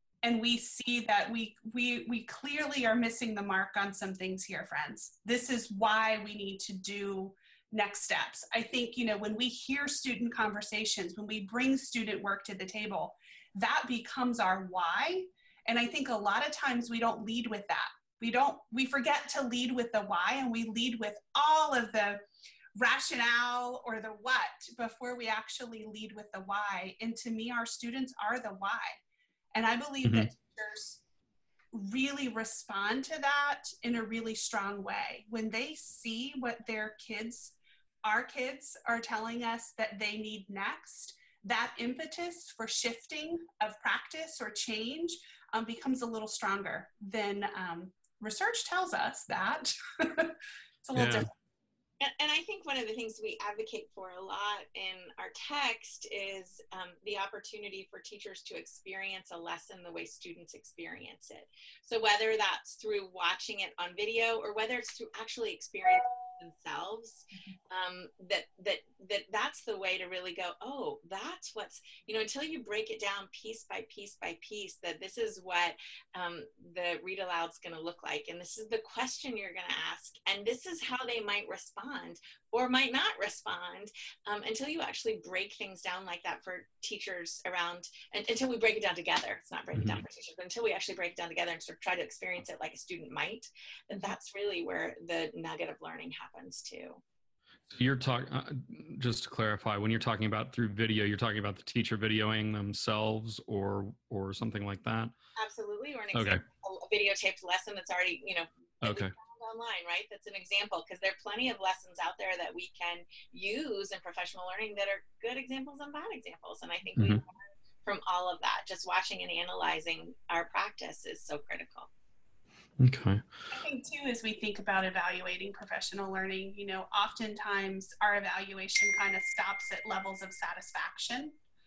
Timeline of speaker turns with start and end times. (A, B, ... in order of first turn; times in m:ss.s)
0:00.2-0:22.2 A
0:22.8-0:29.0 A
0:29.5-0:31.0 A
0:30.0-0:30.3 B
0:31.7-0:51.3 A
0:51.0-0:51.3 B
0:52.0-1:37.0 C
1:29.7-1:30.0 B
1:37.7-1:45.1 B
1:45.4-1:57.3 C
1:46.1-1:46.4 B
1:48.8-1:49.1 B
1:57.0-1:57.2 B
1:57.8-2:01.9 C
2:02.8-2:03.2 B
2:03.5-2:11.4 A